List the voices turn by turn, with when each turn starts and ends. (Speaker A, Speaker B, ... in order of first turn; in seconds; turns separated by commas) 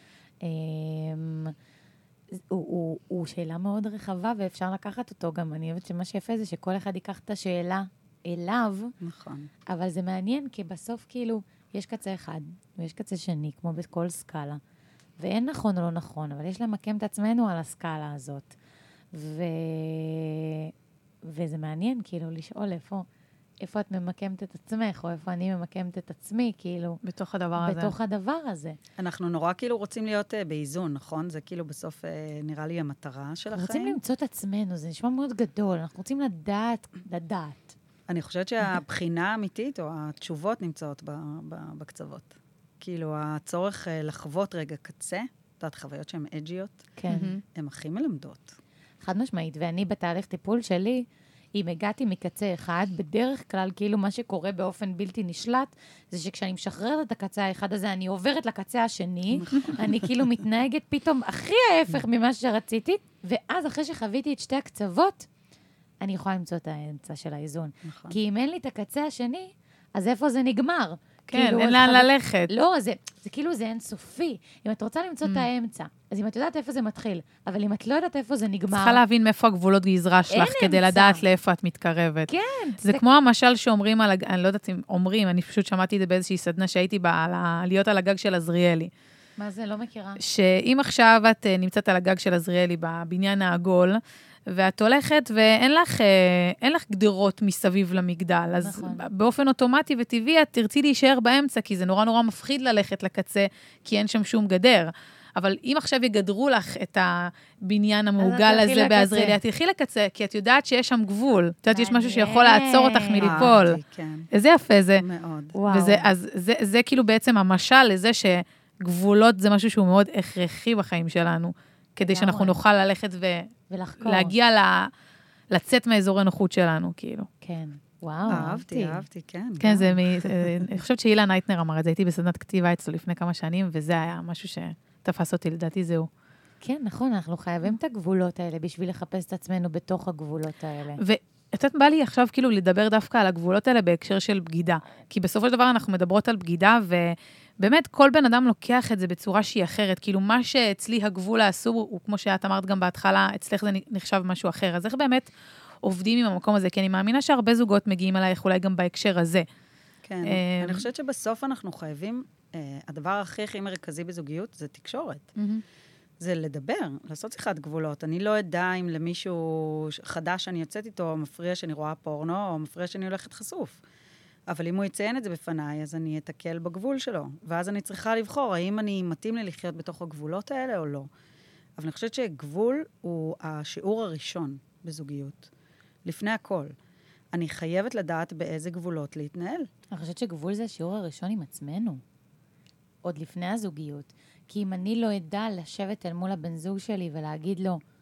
Speaker A: 0.4-1.5, Speaker A: 2.5-8.9, Speaker B: 9.0-9.5, Speaker A: 9.7-14.6, Speaker A: 15.2-18.5, Speaker A: 19.1-20.7, Speaker A: 21.2-23.1, Speaker A: 23.6-27.0, Speaker C: 27.0-27.9, Speaker A: 27.6-28.8, Speaker B: 29.0-34.0, Speaker A: 33.5-37.8, Speaker B: 38.1-46.9, Speaker A: 47.0-47.3, Speaker C: 47.1-47.4, Speaker B: 47.5-48.5, Speaker A: 49.0-65.3, Speaker B: 59.3-60.1, Speaker A: 66.0-79.0, Speaker B: 67.8-68.2, Speaker C: 71.3-72.5, Speaker C: 78.7-88.9, Speaker A: 80.3-81.2, Speaker A: 82.3-83.0, Speaker A: 89.4-90.2, Speaker C: 90.2-94.0, Speaker C: 94.5-113.8, Speaker A: 98.5-99.1, Speaker A: 108.2-109.4, Speaker A: 111.7-113.6, Speaker B: 113.2-114.3, Speaker C: 114.3-115.0, Speaker B: 115.0-115.6, Speaker A: 115.5-116.1, Speaker C: 115.7-124.9, Speaker A: 122.0-122.6, Speaker A: 123.7-124.3, Speaker C: 125.5-127.3, Speaker A: 127.4-129.0, Speaker B: 128.3-130.7, Speaker C: 129.6-136.1, Speaker A: 136.6-141.0, Speaker C: 141.0-155.3, Speaker C: 155.8-159.4, Speaker B: 160.0-165.3, Speaker C: 160.2-160.8, Speaker C: 165.3-165.6, Speaker B: 166.2-173.8, Speaker B: 174.5-181.1, Speaker B: 181.8-185.5, Speaker B: 186.0-186.7, Speaker B: 187.3-189.7, Speaker A: 189.9-192.0, Speaker A: 193.0-197.8